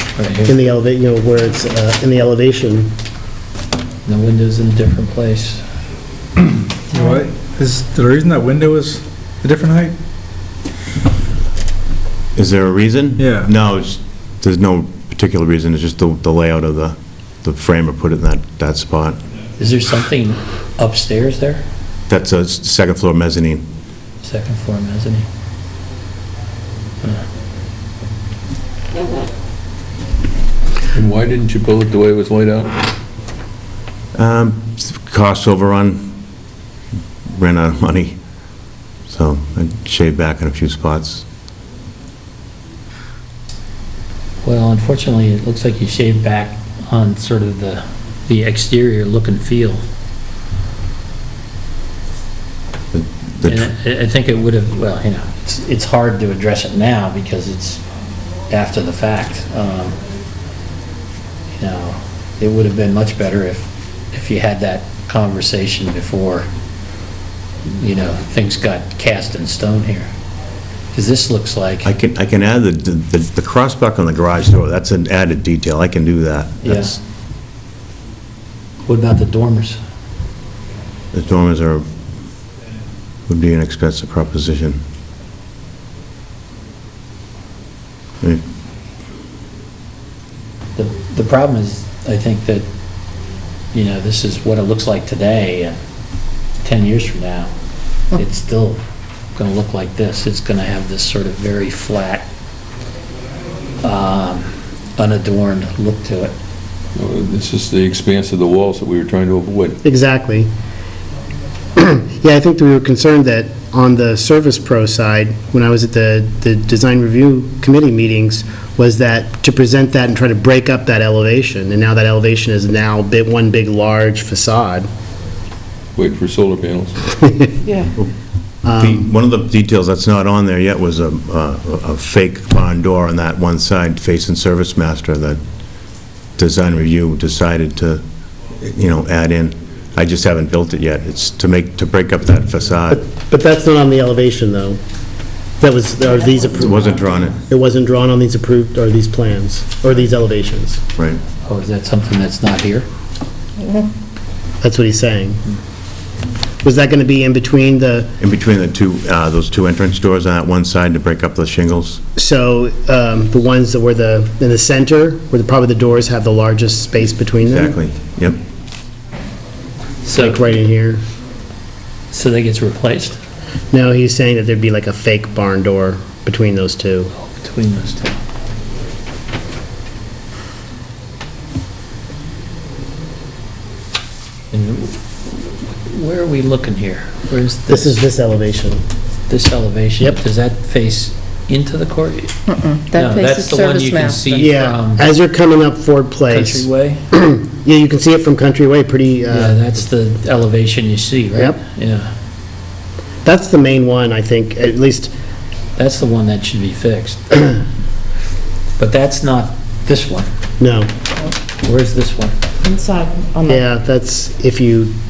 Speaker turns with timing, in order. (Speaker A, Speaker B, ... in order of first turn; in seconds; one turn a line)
Speaker A: 0.2-0.5
Speaker B: 0.4-2.9
Speaker A: 4.0-5.6
Speaker C: 6.9-10.0
Speaker D: 7.0-7.2
Speaker E: 12.3-19.2
Speaker C: 13.2-13.5
Speaker A: 19.6-21.6
Speaker E: 22.1-23.6
Speaker A: 24.2-25.2
Speaker F: 30.9-32.8
Speaker E: 34.1-36.1
Speaker E: 37.3-38.2
Speaker E: 39.1-41.2
Speaker A: 44.4-49.8
Speaker E: 52.9-53.7
Speaker A: 53.5-57.8
Speaker A: 58.5-60.0
Speaker A: 61.6-66.5
Speaker A: 67.7-70.1
Speaker A: 70.9-71.9
Speaker E: 71.8-77.0
Speaker A: 76.6-77.0
Speaker A: 78.8-79.8
Speaker E: 81.1-81.8
Speaker E: 83.3-84.8
Speaker A: 90.8-92.7
Speaker A: 93.7-95.8
Speaker A: 96.6-97.5
Speaker A: 98.1-98.8
Speaker A: 99.3-102.3
Speaker A: 103.8-106.3
Speaker F: 106.9-109.8
Speaker B: 109.8-110.5
Speaker B: 111.8-124.9
Speaker F: 126.0-127.1
Speaker D: 127.7-127.9
Speaker B: 128.6-129.1
Speaker E: 128.8-135.4
Speaker E: 136.4-138.0
Speaker E: 138.6-143.0
Speaker B: 142.9-144.8
Speaker B: 145.6-150.8
Speaker E: 146.6-147.4
Speaker A: 151.4-152.9
Speaker D: 153.6-153.9
Speaker B: 154.6-155.4
Speaker B: 156.6-158.1
Speaker E: 158.2-162.0
Speaker B: 162.2-167.8
Speaker E: 167.4-168.4
Speaker A: 170.0-170.4
Speaker B: 170.1-171.0
Speaker A: 172.1-173.2
Speaker B: 173.7-177.1
Speaker A: 177.2-178.2
Speaker A: 184.5-187.9
Speaker B: 187.7-188.8
Speaker A: 189.3-195.1
Speaker D: 192.5-194.6
Speaker B: 194.4-199.6
Speaker A: 196.3-197.1
Speaker A: 199.3-202.1
Speaker B: 203.2-205.1
Speaker A: 205.8-207.4
Speaker A: 208.8-210.3
Speaker B: 210.6-210.9
Speaker A: 211.6-212.4
Speaker D: 212.6-213.6
Speaker B: 213.5-214.9